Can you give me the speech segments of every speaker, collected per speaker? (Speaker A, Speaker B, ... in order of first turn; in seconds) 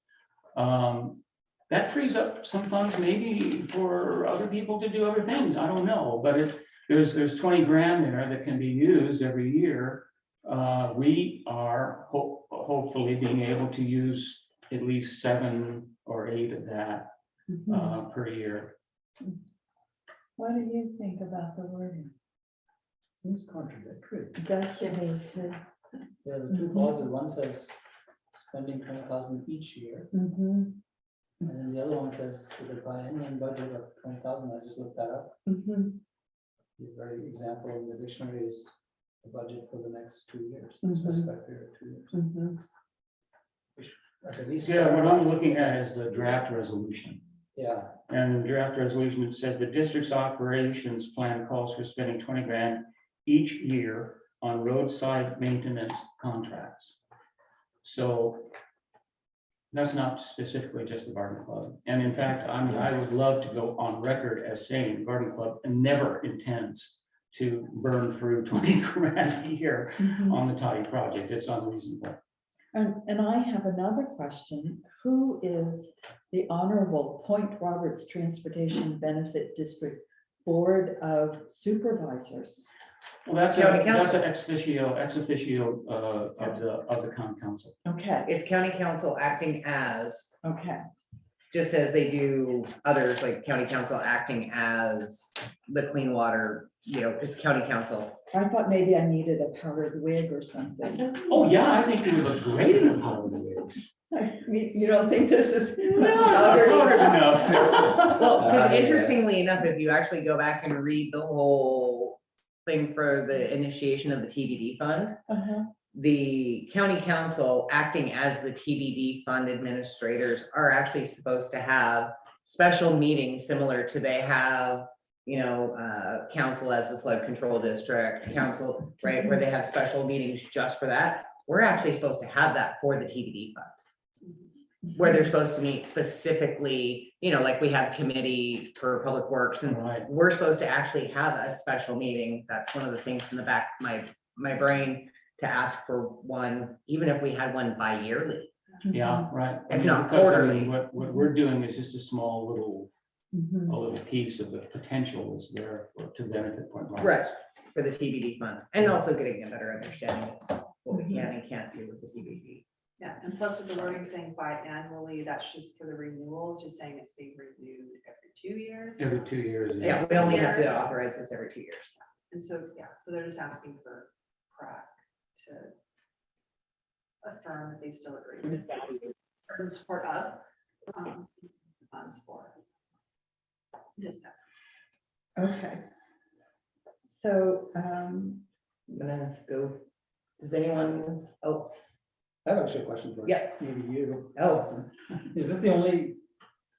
Speaker A: 0.6-17.1, 17.7-18.8, 44.6-47.2, 48.1-57.0, 57.8-58.5, 59.7-72.2, 83.3-87.8, 101.0-103.9, 105.9-108.8, 139.7-140.1, 148.9-152.9, 153.7-157.3, 169.0-170.6
Speaker B: 17.5-17.9, 20.4-22.1, 24.4-25.6, 26.6-26.9, 30.1-30.8, 35.5-36.0, 40.8-41.2, 42.1-42.6, 70.0-70.4, 72.7-82.7, 87.8-88.3, 90.4-90.8, 98.3-101.3, 104.1-108.4, 115.3-115.7, 148.9-149.2, 153.3-153.8, 185.4-185.8, 187.1-188.4
Speaker C: 23.2-24.4, 26.2-27.8, 28.3-30.1, 31.4-35.4, 36.8-42.1, 43.8-45.6, 47.5-47.9, 108.4-109.2, 192.4-196.2
Speaker D: 83.5-84.2, 88.3-90.3, 91.5-98.2, 108.2-115.2, 115.9-133.8, 134.9-148.5, 149.7-150.8, 157.0-162.6, 169.8-171.9, 188.9-189.8, 190.4-192.0, 193.3-193.5, 194.4-194.7
Speaker E: 163.0-169.3, 169.8-170.9, 172.3-175.7, 177.2-181.3, 181.9-182.6, 184.0-184.4